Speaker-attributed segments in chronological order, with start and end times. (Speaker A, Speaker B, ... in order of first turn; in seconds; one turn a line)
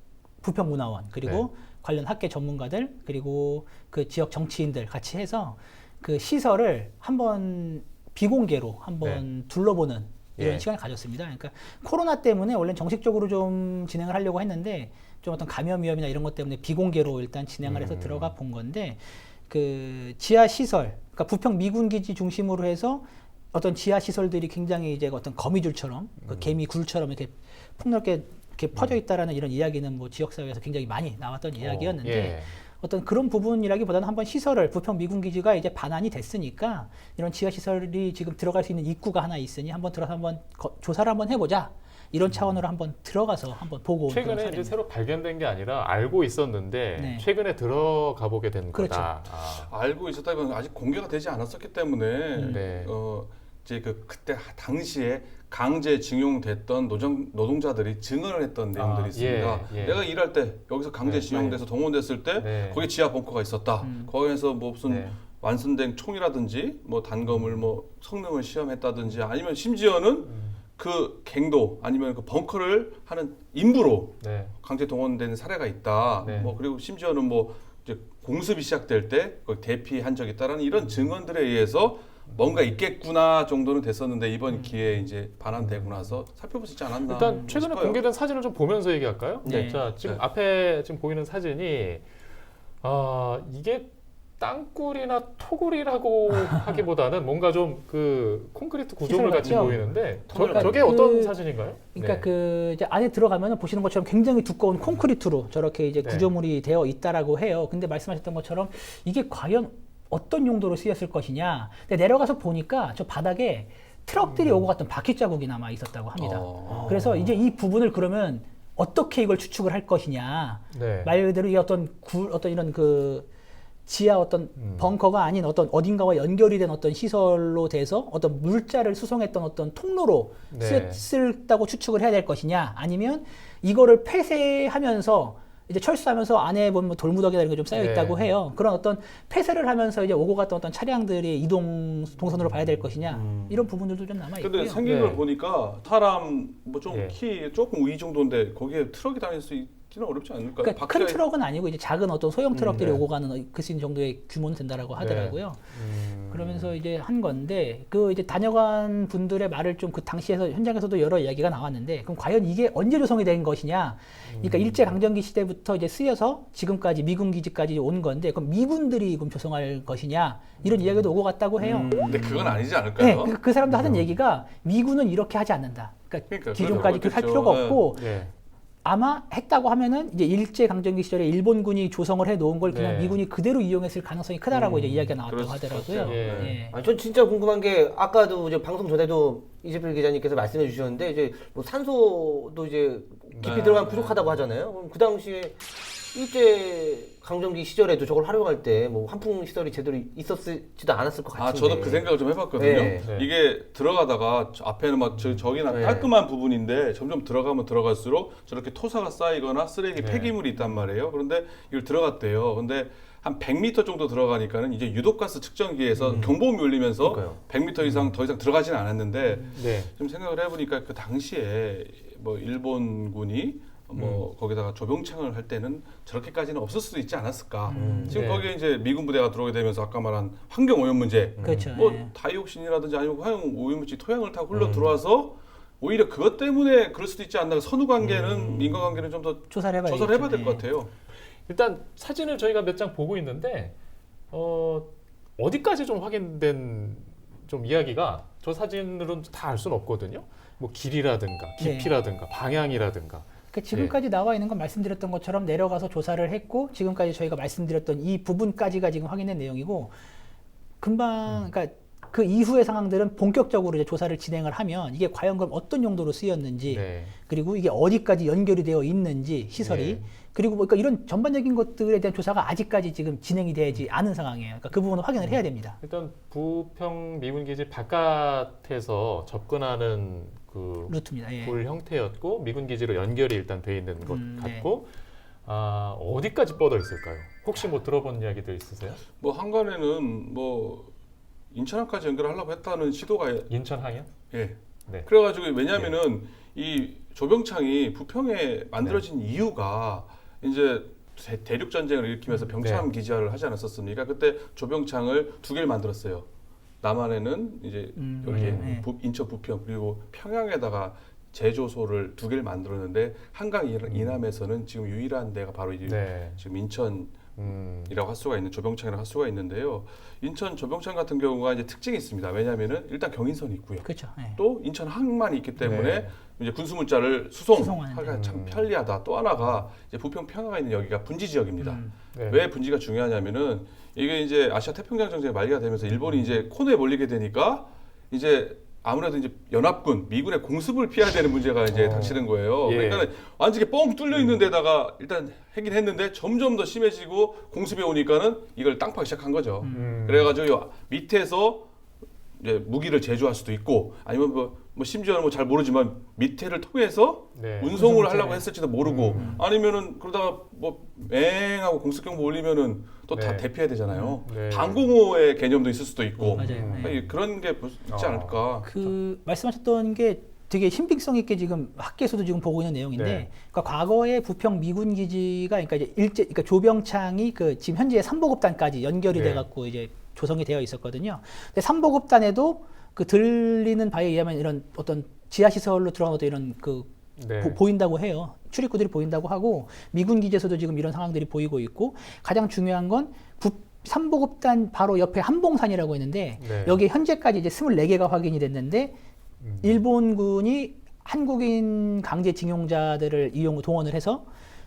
Speaker A: 0.4-44.8
Speaker B: 10.4-10.7
Speaker B: 17.6-18.3
Speaker B: 26.3-26.6
Speaker B: 31.6-32.5
Speaker B: 42.3-42.6
Speaker B: 44.1-49.7
Speaker A: 47.0-47.3
Speaker A: 48.7-49.2
Speaker C: 49.6-88.0
Speaker A: 52.4-52.6
Speaker B: 52.4-52.9
Speaker B: 58.7-60.0
Speaker B: 61.0-61.7
Speaker B: 62.3-62.9
Speaker A: 63.8-64.1
Speaker B: 64.8-65.2
Speaker B: 67.2-67.7
Speaker B: 70.2-70.6
Speaker B: 74.2-74.5
Speaker B: 76.2-76.6
Speaker B: 85.6-86.2
Speaker B: 87.0-92.0
Speaker C: 89.5-90.2
Speaker A: 89.5-89.8
Speaker B: 92.8-102.3
Speaker A: 99.0-101.3
Speaker D: 99.3-101.0
Speaker A: 101.9-123.3
Speaker B: 106.0-106.3
Speaker B: 114.3-114.7
Speaker C: 116.2-117.0
Speaker D: 116.7-117.1
Speaker B: 117.0-117.3
Speaker B: 120.7-121.2
Speaker A: 123.9-144.8
Speaker B: 124.6-125.0
Speaker B: 130.5-131.0
Speaker B: 137.7-138.3
Speaker D: 143.1-143.7
Speaker C: 144.4-151.2
Speaker B: 144.8-145.2
Speaker B: 146.9-147.2
Speaker A: 150.6-155.8
Speaker B: 152.7-153.0
Speaker B: 155.0-156.8
Speaker A: 156.3-172.2
Speaker B: 164.3-165.0
Speaker D: 171.6-172.5
Speaker C: 172.0-173.4
Speaker A: 173.0-178.1
Speaker B: 173.7-174.1
Speaker C: 176.3-177.9
Speaker B: 176.6-177.0
Speaker B: 177.9-178.3
Speaker A: 178.8-186.8
Speaker B: 182.6-183.2
Speaker D: 184.5-184.9
Speaker B: 184.7-185.2
Speaker C: 185.3-186.6
Speaker B: 186.0-186.6
Speaker D: 186.7-203.1
Speaker B: 193.3-193.9
Speaker C: 193.4-194.4
Speaker C: 201.3-240.9
Speaker B: 203.0-203.3
Speaker B: 205.2-205.4
Speaker D: 205.6-206.1
Speaker B: 209.9-210.4
Speaker D: 215.9-216.4
Speaker D: 217.0-217.4
Speaker B: 217.8-218.2
Speaker B: 219.5-219.9
Speaker B: 224.0-224.2
Speaker A: 227.7-228.2
Speaker D: 227.7-228.2
Speaker B: 228.1-228.5
Speaker D: 231.4-231.7
Speaker A: 231.4-232.1
Speaker D: 234.5-235.0
Speaker D: 238.0-239.0
Speaker A: 239.5-240.7
Speaker B: 241.5-243.8
Speaker B: 244.3-253.9
Speaker A: 251.6-251.9
Speaker A: 253.5-259.9
Speaker A: 260.8-275.8
Speaker B: 261.3-261.5
Speaker B: 266.7-267.1
Speaker B: 269.6-270.1
Speaker B: 275.2-284.9
Speaker A: 280.9-281.6
Speaker A: 284.0-284.7
Speaker B: 285.4-289.0
Speaker C: 289.2-290.9
Speaker C: 291.5-293.5
Speaker B: 293.5-294.1
Speaker C: 294.3-306.3
Speaker B: 295.7-296.0
Speaker B: 302.5-302.9
Speaker C: 306.8-351.6
Speaker A: 308.0-308.9
Speaker B: 308.3-308.7
Speaker B: 313.9-314.2
Speaker B: 315.8-316.4
Speaker B: 317.4-317.9
Speaker A: 323.8-324.4
Speaker B: 325.6-326.1
Speaker A: 327.5-328.1
Speaker B: 328.1-328.7
Speaker A: 331.6-331.9
Speaker B: 332.1-332.4
Speaker B: 335.9-336.2
Speaker B: 341.7-343.1
Speaker B: 344.1-344.5
Speaker A: 349.6-350.0
Speaker B: 349.6-350.4
Speaker C: 352.4-368.7
Speaker B: 357.4-357.9
Speaker A: 357.8-358.5
Speaker B: 358.8-359.4
Speaker A: 359.1-359.4
Speaker B: 363.1-363.5
Speaker A: 363.9-364.2
Speaker B: 364.2-364.9
Speaker B: 366.2-367.1
Speaker A: 366.4-367.0
Speaker B: 367.9-368.9
Speaker A: 368.6-398.9
Speaker B: 372.9-373.3
Speaker B: 379.1-379.5
Speaker B: 387.2-387.6
Speaker B: 396.4-396.8
Speaker B: 399.4-399.8
Speaker A: 399.6-404.3